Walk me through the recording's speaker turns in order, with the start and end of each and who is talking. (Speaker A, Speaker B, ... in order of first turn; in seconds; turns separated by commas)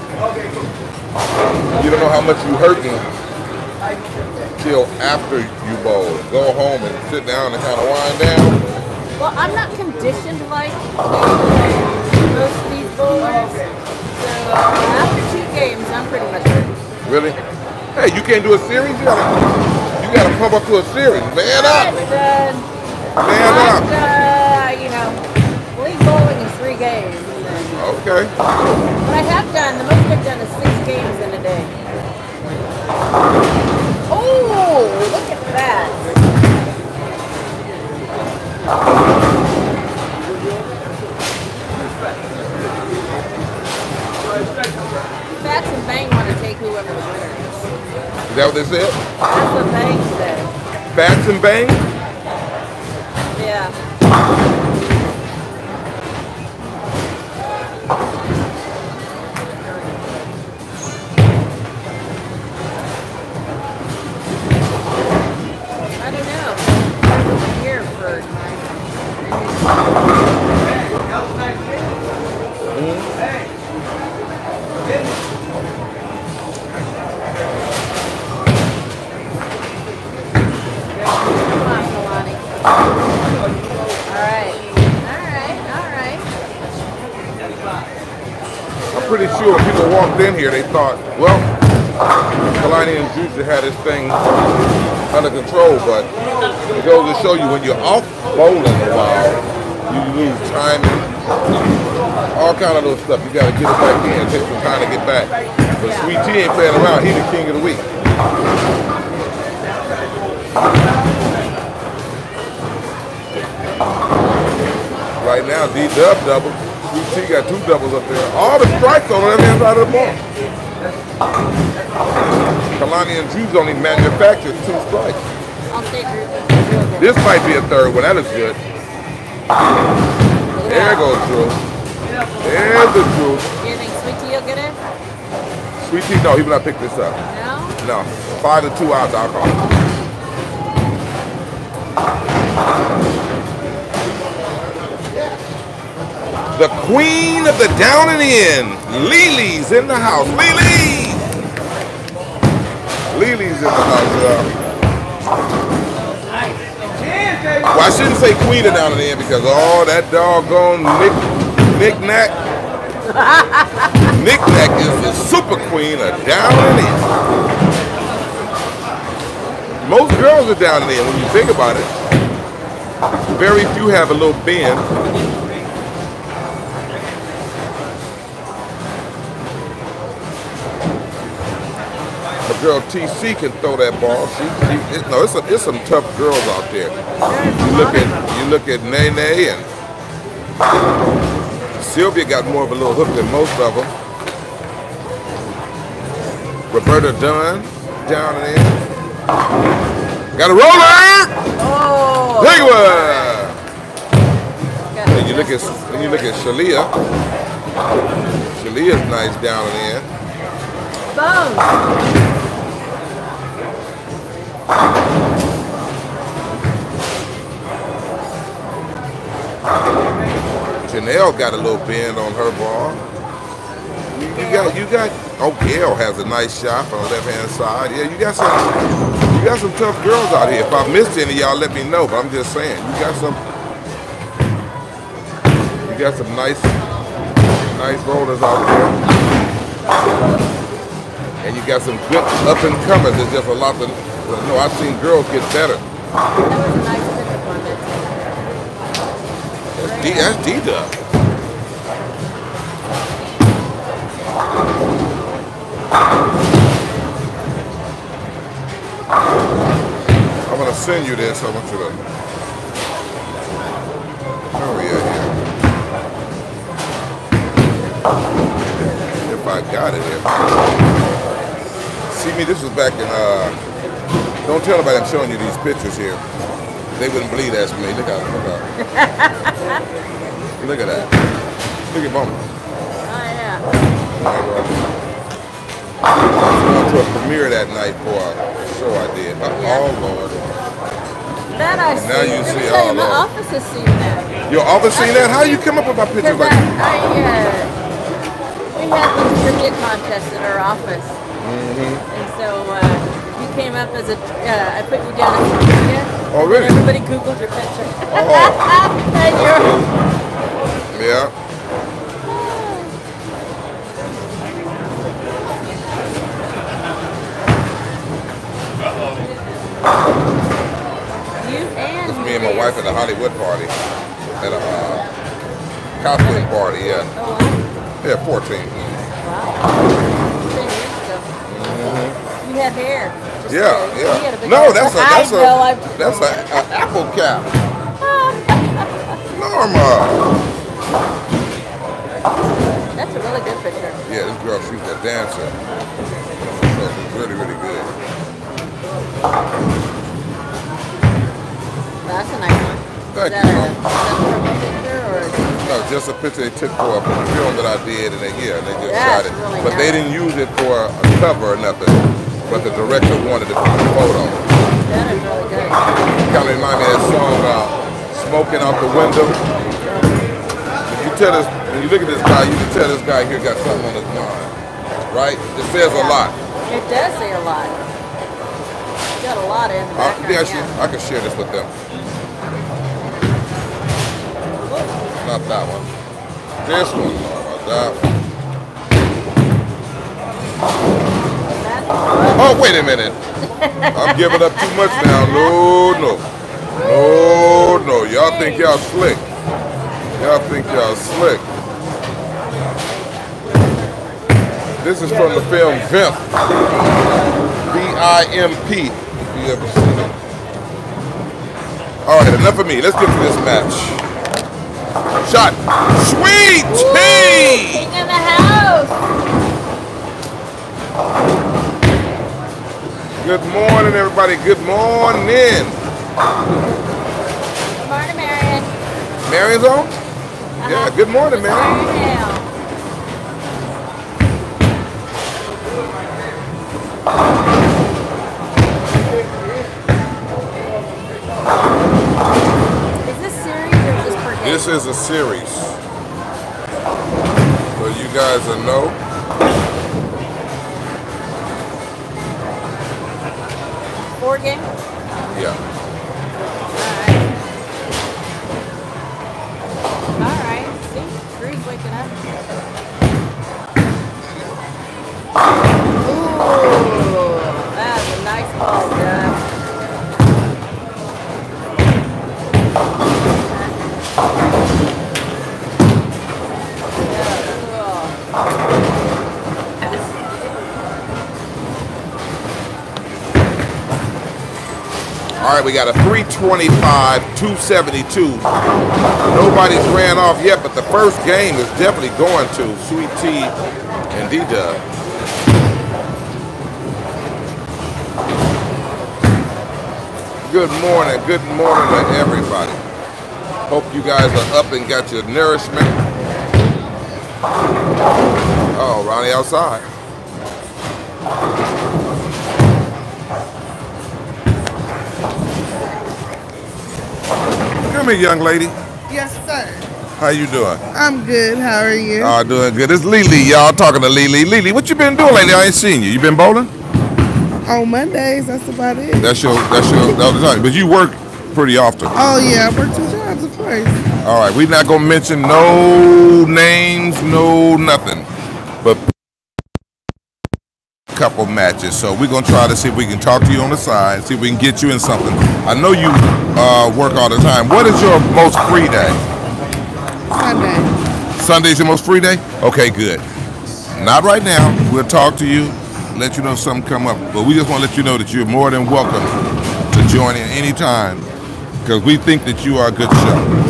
Speaker A: 1.7-3.1, Speaker A: 4.6-8.6, Speaker B: 9.2-13.6, Speaker B: 14.2-16.7, Speaker A: 17.1-17.4, Speaker A: 17.9-19.4, Speaker A: 20.0-22.0, Speaker B: 21.5-22.7, Speaker A: 23.2-23.9, Speaker B: 23.3-25.2, Speaker B: 25.7-27.7, Speaker A: 27.8-28.3, Speaker B: 29.0-31.7, Speaker B: 34.1-36.0, Speaker B: 45.4-47.7, Speaker A: 48.3-49.0, Speaker B: 49.2-50.5, Speaker A: 50.9-51.9, Speaker B: 53.3-53.8, Speaker B: 66.0-68.5, Speaker A: 72.7-73.1, Speaker B: 81.4-82.4, Speaker B: 84.1-86.3, Speaker A: 88.9-91.5, Speaker A: 92.5-94.4, Speaker A: 95.1-96.1, Speaker A: 96.7-101.1, Speaker A: 102.3-107.8, Speaker B: 105.8-106.1, Speaker A: 115.2-120.2, Speaker A: 122.8-125.2, Speaker B: 125.7-127.4, Speaker A: 127.0-128.6, Speaker B: 130.6-131.1, Speaker A: 130.7-131.6, Speaker A: 132.4-133.5, Speaker B: 133.6-134.8, Speaker A: 135.8-137.2, Speaker B: 137.3-137.8, Speaker A: 137.8-139.6, Speaker A: 146.6-151.2, Speaker A: 153.1-154.5, Speaker A: 157.7-162.3, Speaker B: 163.1-164.1, Speaker A: 164.1-167.1, Speaker A: 169.8-171.9, Speaker A: 173.3-174.9, Speaker A: 182.4-186.9, Speaker B: 187.2-188.4, Speaker A: 187.6-189.7, Speaker A: 191.8-193.9, Speaker A: 196.7-198.8, Speaker A: 200.3-201.4, Speaker B: 201.6-203.2, Speaker A: 202.4-203.6, Speaker B: 204.9-206.4, Speaker A: 205.1-206.9, Speaker A: 208.6-210.1, Speaker B: 211.1-212.0, Speaker A: 220.9-223.0, Speaker A: 224.1-228.7, Speaker B: 224.3-224.7, Speaker A: 229.3-233.4, Speaker A: 235.8-236.7, Speaker A: 237.7-239.0, Speaker A: 241.4-245.8, Speaker B: 246.4-248.3, Speaker A: 249.8-250.9, Speaker B: 249.8-250.4, Speaker A: 260.5-262.0, Speaker A: 264.6-265.3, Speaker A: 269.2-270.3, Speaker A: 272.1-273.6, Speaker A: 274.4-276.2, Speaker A: 277.0-278.6, Speaker B: 278.8-279.6, Speaker A: 280.6-281.1, Speaker A: 281.9-282.4, Speaker B: 283.1-283.6, Speaker A: 284.2-284.9, Speaker A: 286.3-290.4, Speaker B: 289.5-289.9, Speaker B: 291.5-294.3, Speaker A: 291.9-293.2, Speaker A: 294.5-296.6, Speaker B: 294.9-295.6, Speaker B: 296.2-297.7, Speaker B: 298.8-301.2, Speaker A: 301.4-302.0, Speaker B: 302.1-309.8, Speaker A: 306.3-306.8, Speaker A: 308.1-308.7, Speaker A: 309.3-309.9, Speaker A: 310.9-311.3, Speaker B: 312.2-312.9, Speaker B: 321.4-323.1, Speaker A: 322.1-323.7, Speaker A: 324.4-325.1, Speaker A: 326.0-327.1, Speaker B: 326.2-326.5, Speaker B: 327.1-327.7, Speaker A: 328.0-328.9, Speaker B: 329.2-329.7, Speaker B: 330.4-331.3, Speaker A: 331.5-332.2, Speaker B: 332.4-335.9, Speaker A: 333.5-337.5, Speaker B: 338.0-338.9, Speaker A: 339.3-340.3, Speaker B: 342.9-344.0, Speaker A: 344.1-345.6, Speaker A: 346.5-347.9, Speaker B: 352.1-355.8, Speaker A: 353.1-353.8, Speaker A: 355.6-364.4, Speaker B: 358.8-360.1, Speaker B: 364.9-365.9, Speaker A: 366.2-369.4, Speaker B: 369.8-370.3, Speaker A: 370.9-374.5, Speaker A: 375.1-376.4, Speaker B: 375.8-377.8, Speaker B: 379.2-380.7, Speaker A: 380.0-381.7, Speaker B: 384.6-384.9, Speaker A: 385.2-385.9, Speaker A: 386.6-388.0, Speaker B: 391.4-392.7, Speaker A: 392.4-393.2, Speaker B: 393.6-395.6, Speaker A: 393.9-396.2, Speaker A: 396.8-399.2, Speaker B: 398.1-398.8, Speaker A: 400.2-401.4, Speaker A: 404.8-406.2, Speaker A: 407.6-410.2, Speaker A: 412.1-414.0, Speaker A: 415.2-417.9, Speaker B: 416.7-419.0, Speaker A: 423.2-425.8, Speaker B: 427.8-428.7, Speaker A: 429.2-429.9, Speaker B: 430.6-432.5, Speaker A: 430.6-431.8, Speaker B: 443.1-444.7, Speaker A: 444.4-445.8, Speaker A: 447.8-449.0, Speaker B: 454.2-454.7, Speaker A: 455.3-455.6, Speaker B: 456.7-457.3, Speaker B: 460.2-462.2, Speaker B: 466.1-469.4, Speaker B: 477.1-478.1, Speaker A: 485.4-488.5, Speaker A: 489.3-493.6, Speaker A: 494.1-494.8, Speaker A: 500.4-502.8, Speaker A: 503.7-506.0, Speaker A: 508.7-509.9, Speaker A: 517.8-518.8, Speaker C: 519.1-519.9, Speaker A: 520.2-520.9, Speaker C: 520.9-522.4, Speaker A: 522.2-526.7, Speaker C: 527.6-529.3, Speaker A: 529.2-532.2, Speaker C: 532.1-534.0, Speaker A: 534.2-538.3, Speaker A: 541.1-549.2, Speaker C: 550.3-550.9, Speaker A: 551.4-553.2, Speaker A: 554.0-559.3, Speaker A: 559.9-561.3, Speaker A: 561.8-563.5